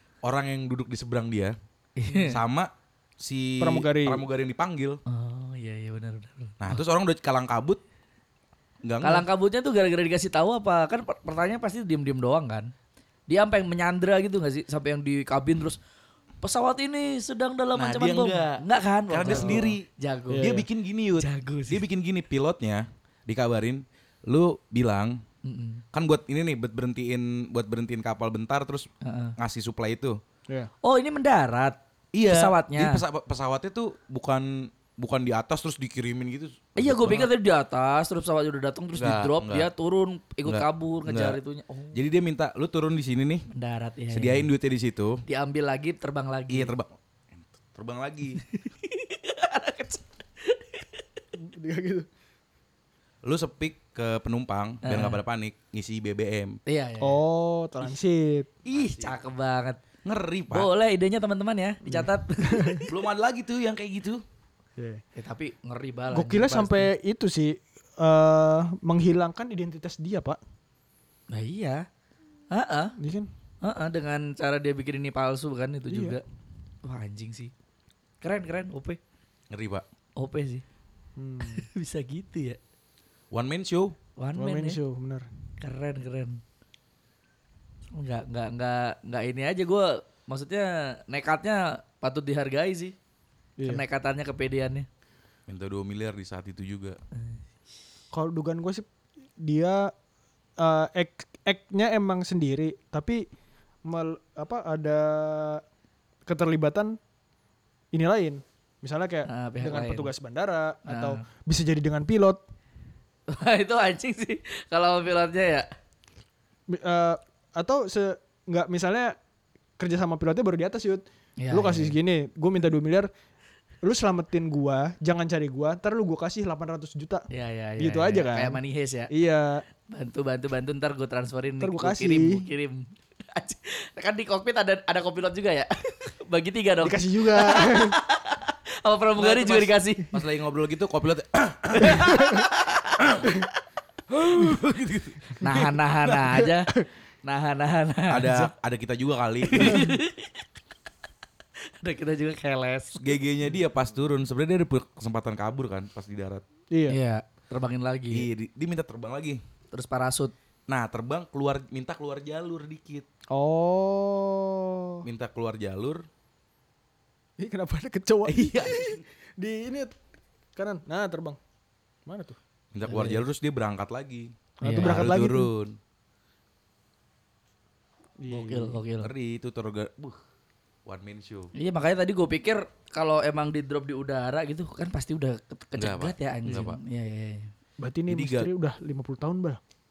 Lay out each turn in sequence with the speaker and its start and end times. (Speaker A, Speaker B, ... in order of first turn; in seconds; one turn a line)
Speaker A: 0.2-1.6
Speaker B: 2.0-2.4
Speaker A: 2.1-5.0
Speaker C: 3.6-4.2
Speaker B: 5.1-6.8
Speaker A: 6.6-7.8
Speaker A: 8.8-9.2
Speaker B: 9.0-12.7
Speaker B: 13.3-15.8
Speaker B: 16.4-20.5
Speaker A: 17.8-19.9
Speaker C: 19.3-19.7
Speaker C: 20.3-20.7
Speaker A: 20.4-25.2
Speaker B: 21.2-21.8
Speaker B: 25.4-25.8
Speaker A: 25.9-30.2
Speaker B: 29.0-29.4
Speaker B: 30.8-33.0
Speaker A: 32.1-37.3
Speaker B: 36.8-42.0
Speaker A: 39.0-39.7
Speaker A: 40.5-41.4
Speaker A: 41.9-43.5
Speaker B: 43.5-44.5
Speaker A: 44.1-45.2
Speaker B: 45.3-46.7
Speaker A: 46.5-48.4
Speaker B: 48.5-51.0
Speaker C: 51.4-52.1
Speaker A: 53.2-56.6
Speaker B: 54.8-55.2
Speaker B: 56.7-57.2
Speaker C: 57.0-58.5
Speaker A: 58.6-59.2
Speaker B: 58.7-59.8
Speaker A: 60.0-60.7
Speaker B: 60.5-62.9
Speaker C: 61.9-62.9
Speaker A: 62.9-64.2
Speaker C: 64.8-65.0
Speaker B: 65.2-66.9
Speaker C: 66.1-70.4
Speaker B: 71.3-71.8
Speaker B: 72.5-73.0
Speaker C: 73.0-73.3
Speaker B: 73.6-76.2
Speaker C: 75.9-76.2
Speaker B: 76.8-77.5
Speaker B: 78.2-79.0
Speaker A: 79.5-79.9
Speaker B: 80.2-80.6
Speaker C: 81.2-81.7
Speaker B: 81.4-82.6
Speaker A: 83.3-84.0
Speaker B: 84.2-84.8
Speaker C: 84.4-85.3
Speaker B: 85.6-86.4
Speaker B: 87.9-93.0
Speaker C: 93.6-93.8
Speaker B: 93.7-94.9
Speaker A: 95.5-97.0
Speaker C: 98.1-98.8
Speaker C: 99.4-99.9
Speaker C: 100.6-103.3
Speaker C: 103.8-105.6
Speaker C: 106.3-107.0
Speaker C: 107.9-112.4
Speaker B: 109.3-110.1
Speaker B: 110.9-111.2
Speaker B: 113.3-115.7
Speaker C: 116.7-119.2
Speaker C: 119.8-123.1
Speaker B: 121.4-122.0
Speaker C: 123.8-127.3
Speaker B: 127.3-129.1
Speaker C: 127.8-129.6
Speaker B: 129.9-140.1
Speaker C: 131.6-132.5
Speaker C: 136.8-138.0
Speaker A: 139.2-143.3
Speaker B: 141.8-143.0
Speaker C: 142.0-142.4
Speaker A: 144.1-145.7
Speaker B: 145.4-146.7
Speaker B: 147.2-148.5
Speaker A: 148.1-149.9
Speaker B: 149.5-150.4
Speaker B: 151.8-153.2
Speaker A: 153.0-156.4
Speaker C: 156.7-157.0
Speaker B: 156.9-158.3
Speaker A: 158.1-159.4
Speaker B: 159.7-160.3
Speaker A: 160.7-163.1
Speaker C: 163.3-165.1
Speaker A: 165.0-166.1
Speaker C: 167.4-169.9
Speaker A: 168.2-169.0
Speaker C: 170.6-171.4
Speaker C: 172.1-172.4
Speaker A: 172.7-175.8
Speaker B: 172.9-173.2
Speaker C: 174.6-175.5
Speaker B: 174.6-175.1
Speaker C: 178.2-178.8
Speaker B: 178.3-179.1
Speaker A: 179.0-180.2
Speaker A: 180.9-181.5
Speaker B: 181.6-187.5
Speaker A: 185.8-186.8
Speaker C: 187.8-189.6
Speaker A: 188.1-188.5